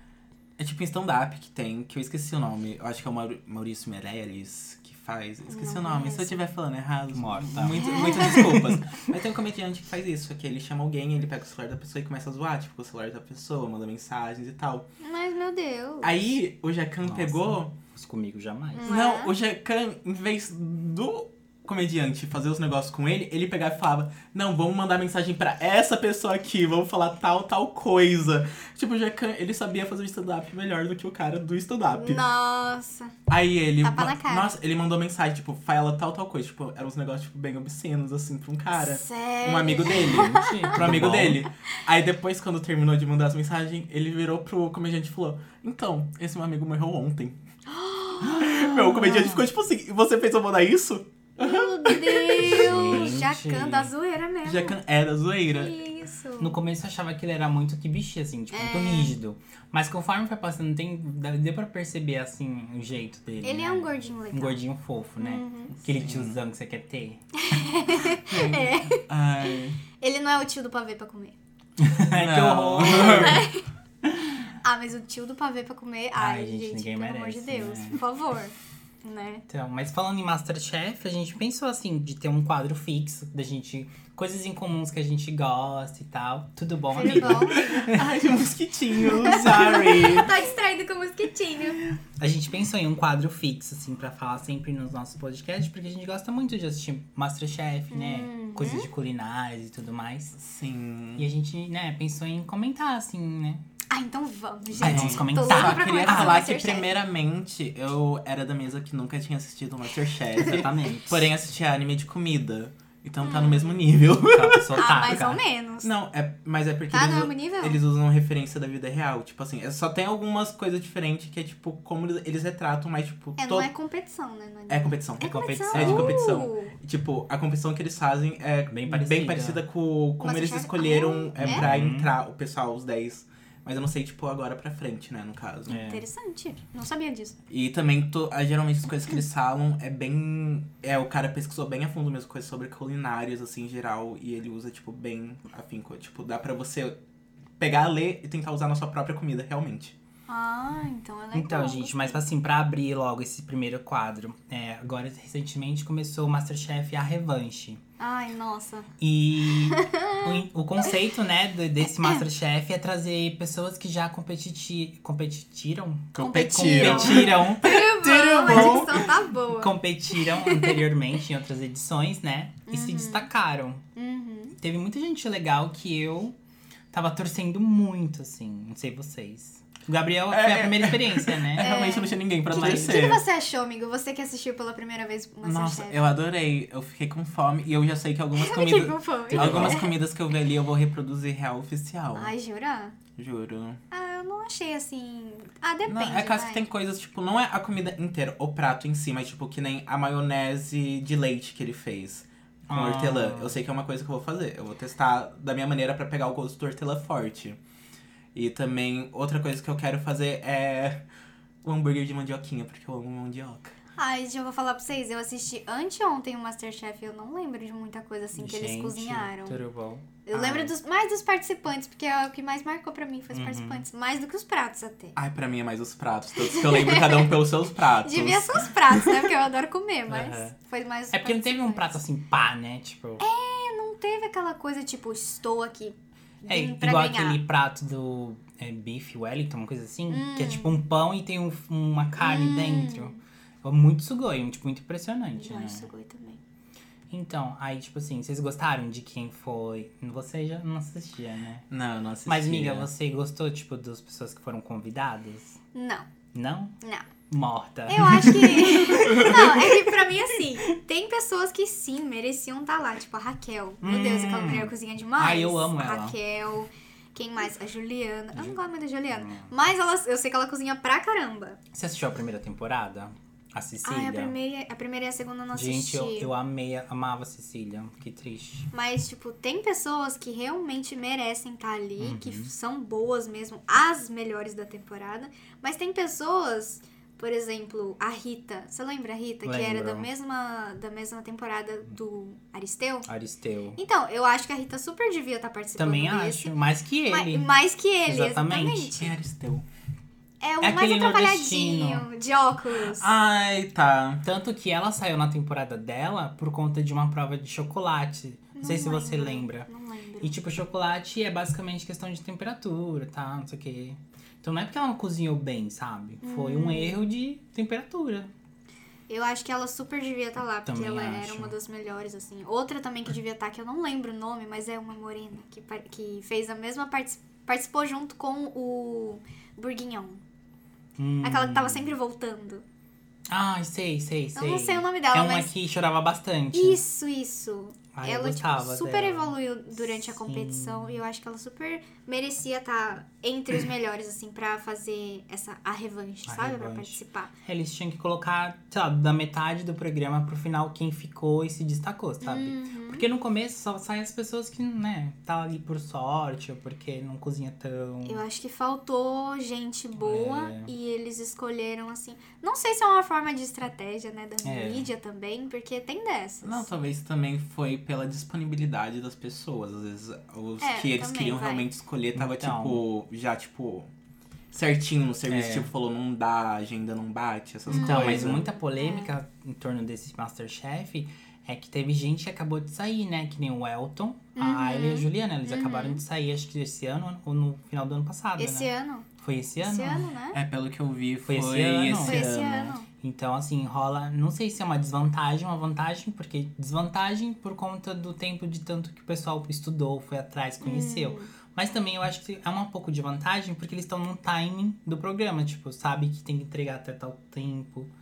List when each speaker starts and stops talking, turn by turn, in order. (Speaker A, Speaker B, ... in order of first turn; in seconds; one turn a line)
Speaker A: 0.6-14.9
Speaker B: 5.5-6.4
Speaker C: 7.1-9.0
Speaker B: 7.7-8.6
Speaker B: 15.0-16.3
Speaker A: 16.0-17.7
Speaker C: 17.0-18.9
Speaker B: 18.7-19.3
Speaker A: 18.8-32.2
Speaker B: 31.9-33.1
Speaker A: 33.3-47.4
Speaker B: 33.8-34.5
Speaker B: 38.7-41.0
Speaker C: 39.8-41.4
Speaker B: 47.7-49.1
Speaker A: 48.2-53.1
Speaker C: 48.9-49.4
Speaker B: 51.4-54.8
Speaker C: 52.4-53.9
Speaker A: 54.4-55.8
Speaker B: 55.5-56.6
Speaker C: 56.4-67.2
Speaker B: 58.5-59.1
Speaker B: 63.4-64.6
Speaker B: 65.2-65.8
Speaker A: 65.9-66.4
Speaker B: 67.4-71.3
Speaker A: 68.2-69.8
Speaker C: 71.8-73.5
Speaker A: 72.1-73.5
Speaker B: 72.9-73.6
Speaker B: 74.6-79.4
Speaker C: 76.2-78.0
Speaker C: 79.5-88.0
Speaker B: 86.9-88.0
Speaker A: 87.0-90.4
Speaker B: 89.2-91.8
Speaker C: 92.2-100.4
Speaker B: 97.9-98.9
Speaker A: 100.4-101.2
Speaker C: 101.2-103.6
Speaker B: 103.9-106.9
Speaker A: 104.7-115.2
Speaker C: 104.8-106.4
Speaker C: 110.4-111.3
Speaker B: 113.2-113.8
Speaker C: 114.2-115.4
Speaker B: 114.7-115.9
Speaker A: 115.8-123.7
Speaker B: 116.9-117.8
Speaker B: 123.4-126.8
Speaker A: 124.7-135.8
Speaker C: 125.2-126.2
Speaker C: 128.7-129.6
Speaker B: 130.2-131.6
Speaker C: 131.4-132.1
Speaker C: 135.7-136.1
Speaker B: 135.8-137.4
Speaker A: 137.5-147.0
Speaker A: 147.6-149.9
Speaker B: 150.3-152.2
Speaker C: 151.3-157.8
Speaker B: 158.0-158.9
Speaker C: 159.0-167.8
Speaker B: 159.6-160.9
Speaker A: 166.1-169.2
Speaker B: 166.2-170.9
Speaker C: 168.4-173.8
Speaker B: 172.7-173.3
Speaker B: 173.9-174.6
Speaker C: 174.6-176.3
Speaker C: 176.9-181.7
Speaker A: 180.3-183.2
Speaker B: 181.6-186.1
Speaker C: 182.5-182.9
Speaker A: 185.4-192.3
Speaker B: 188.3-189.9
Speaker C: 189.3-189.8
Speaker B: 192.1-193.0
Speaker A: 193.2-193.8
Speaker B: 193.9-196.7
Speaker A: 195.8-207.6
Speaker C: 202.7-203.6
Speaker A: 208.3-211.0
Speaker A: 211.6-213.7
Speaker B: 214.0-219.6
Speaker C: 218.3-220.1
Speaker B: 220.2-225.2
Speaker A: 220.3-220.7
Speaker C: 223.3-223.8
Speaker A: 225.1-229.3
Speaker B: 226.4-227.3
Speaker B: 228.0-232.0
Speaker C: 230.1-230.6
Speaker C: 231.1-233.2
Speaker B: 233.2-237.4
Speaker C: 236.4-245.9
Speaker B: 240.1-240.8
Speaker B: 242.2-243.2
Speaker B: 245.4-246.4
Speaker C: 247.1-251.7
Speaker A: 251.7-252.9
Speaker C: 252.2-255.6
Speaker B: 255.7-256.1
Speaker C: 256.3-256.7
Speaker C: 257.3-259.9
Speaker B: 257.9-271.6
Speaker A: 259.0-259.4
Speaker C: 263.8-266.2
Speaker C: 268.3-268.6
Speaker C: 269.1-269.5
Speaker C: 271.7-274.4
Speaker B: 273.8-276.3
Speaker C: 275.5-278.7
Speaker B: 278.7-293.1
Speaker C: 282.0-282.5
Speaker C: 289.4-290.1
Speaker C: 293.1-293.8
Speaker B: 293.8-296.5
Speaker C: 295.8-297.5
Speaker B: 297.1-299.1
Speaker C: 298.0-298.9
Speaker A: 299.0-299.6
Speaker B: 300.4-303.1
Speaker C: 300.6-302.1
Speaker A: 302.8-304.2
Speaker C: 304.2-309.7
Speaker B: 308.6-310.4
Speaker C: 310.2-318.3
Speaker B: 316.2-317.0
Speaker B: 319.1-330.2
Speaker C: 320.6-321.5
Speaker C: 331.0-331.9
Speaker B: 331.2-332.6
Speaker C: 333.3-336.8
Speaker B: 334.4-335.5
Speaker B: 336.5-347.3
Speaker C: 337.9-339.3
Speaker C: 339.9-341.0
Speaker C: 346.2-358.2
Speaker B: 352.2-353.1
Speaker B: 358.0-366.7
Speaker C: 360.0-360.7
Speaker C: 364.4-364.9
Speaker A: 366.4-373.9
Speaker B: 370.6-371.7
Speaker C: 372.1-372.8
Speaker A: 374.5-378.4
Speaker C: 375.3-375.7
Speaker B: 377.7-379.1
Speaker C: 377.7-390.1
Speaker B: 384.4-386.0
Speaker B: 388.4-389.1
Speaker B: 389.6-390.4
Speaker A: 390.3-392.7
Speaker C: 391.2-407.9
Speaker B: 391.9-392.9
Speaker B: 400.6-401.3